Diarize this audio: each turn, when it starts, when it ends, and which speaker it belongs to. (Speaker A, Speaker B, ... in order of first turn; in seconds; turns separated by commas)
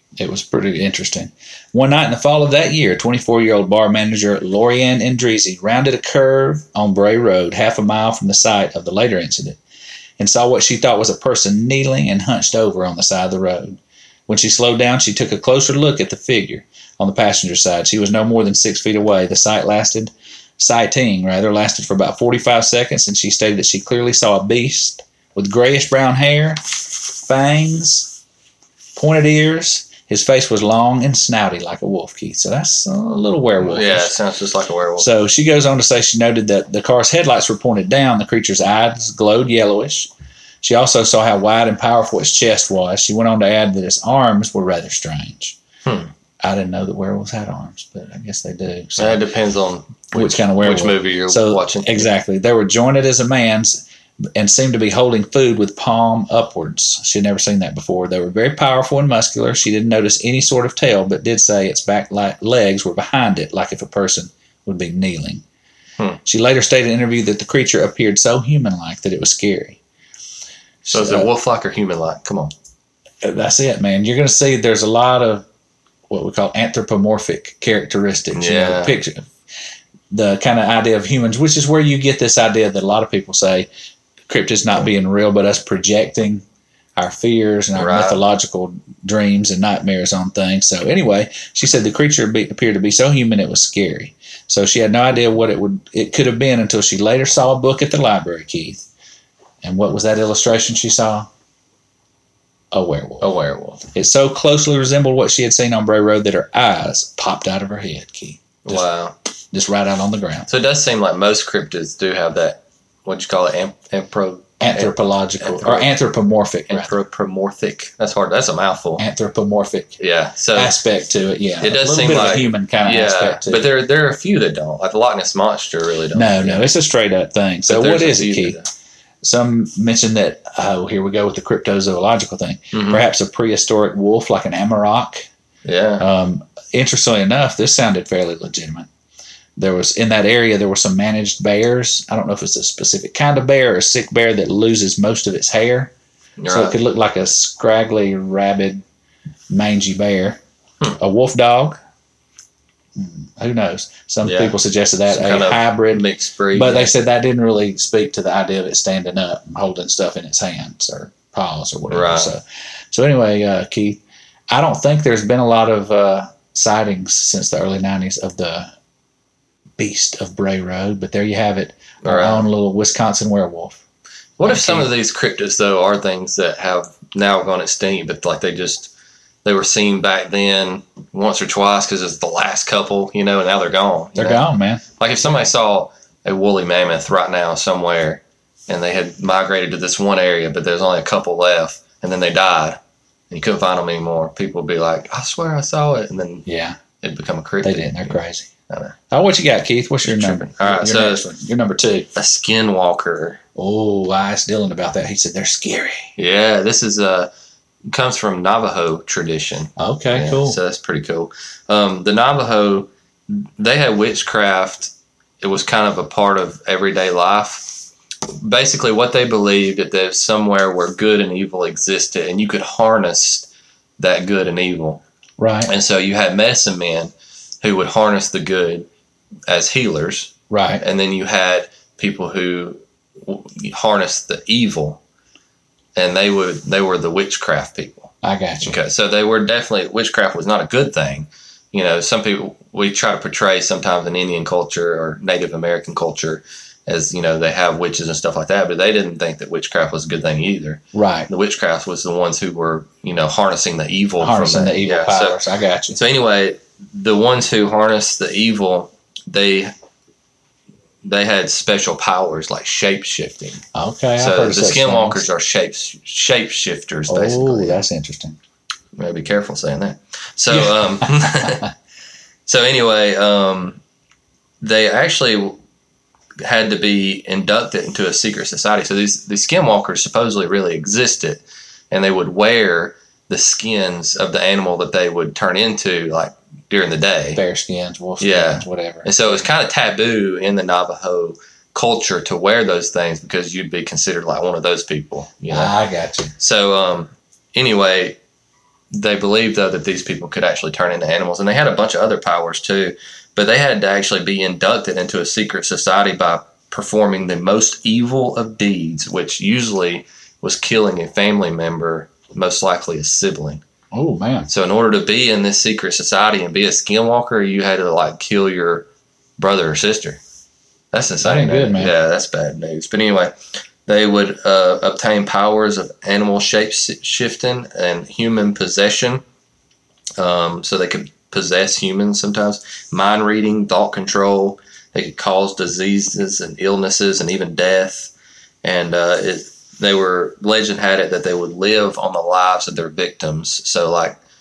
Speaker A: 0.1-9.6, Speaker A: 10.2-28.2, Speaker A: 28.9-34.1, Speaker B: 33.6-35.1, Speaker A: 35.0-40.1, Speaker A: 40.6-45.6, Speaker B: 45.8-46.1, Speaker A: 46.4-49.2, Speaker B: 49.0-52.1, Speaker A: 50.1-53.8, Speaker A: 54.3-65.4, Speaker A: 66.2-69.8, Speaker A: 70.8-71.3, Speaker B: 70.9-72.5, Speaker A: 73.2-75.4, Speaker A: 76.1-79.3, Speaker B: 78.3-79.0, Speaker A: 80.1-83.7, Speaker A: 84.3-86.4, Speaker A: 87.0-98.8, Speaker B: 87.7-88.2, Speaker A: 99.6-101.3, Speaker A: 102.7-103.3, Speaker B: 103.2-103.8, Speaker A: 103.8-108.8, Speaker B: 108.6-109.1, Speaker A: 109.5-110.5, Speaker B: 110.5-115.9, Speaker A: 114.6-116.9, Speaker B: 116.7-119.0, Speaker A: 119.0-120.0, Speaker B: 120.0-120.7, Speaker A: 120.5-123.7, Speaker B: 121.6-126.7, Speaker A: 126.1-128.6, Speaker B: 127.7-128.7, Speaker A: 129.2-135.3, Speaker B: 132.7-133.0, Speaker B: 135.6-136.0, Speaker A: 136.0-138.9, Speaker A: 139.6-145.9, Speaker B: 146.4-146.8, Speaker A: 146.5-148.8, Speaker A: 149.5-150.4, Speaker A: 151.0-151.8, Speaker A: 153.0-168.7, Speaker B: 154.2-154.6, Speaker B: 155.1-156.9, Speaker B: 161.9-162.3, Speaker A: 169.8-173.8, Speaker B: 172.0-172.5, Speaker B: 174.4-178.9, Speaker A: 174.4-174.9, Speaker B: 179.4-184.4, Speaker A: 184.2-184.8, Speaker B: 185.0-192.8, Speaker B: 193.3-196.4, Speaker A: 196.4-196.8, Speaker B: 197.0-198.9, Speaker A: 197.6-198.5, Speaker A: 199.1-202.1, Speaker B: 200.0-201.2, Speaker B: 202.1-203.4, Speaker A: 203.6-206.1, Speaker B: 206.2-207.3, Speaker B: 207.9-225.0, Speaker A: 209.8-210.6, Speaker A: 225.4-225.7, Speaker B: 225.7-228.9, Speaker B: 229.5-235.0, Speaker A: 230.5-230.8, Speaker B: 235.9-255.4, Speaker A: 238.2-238.8, Speaker A: 250.9-251.3, Speaker A: 254.2-256.0, Speaker B: 255.9-259.7, Speaker B: 261.0-263.6, Speaker A: 263.7-265.2, Speaker B: 264.2-267.8, Speaker A: 267.1-268.4, Speaker B: 268.9-271.7, Speaker A: 271.3-271.6, Speaker B: 272.4-273.8, Speaker B: 274.6-275.6, Speaker B: 276.4-287.4, Speaker A: 287.3-289.1, Speaker B: 288.2-295.7, Speaker A: 295.5-296.3, Speaker B: 296.4-298.2, Speaker B: 298.9-313.6, Speaker A: 313.9-314.5, Speaker B: 314.5-320.2, Speaker B: 320.9-329.2, Speaker A: 321.2-321.9, Speaker B: 330.2-338.1, Speaker B: 338.6-344.2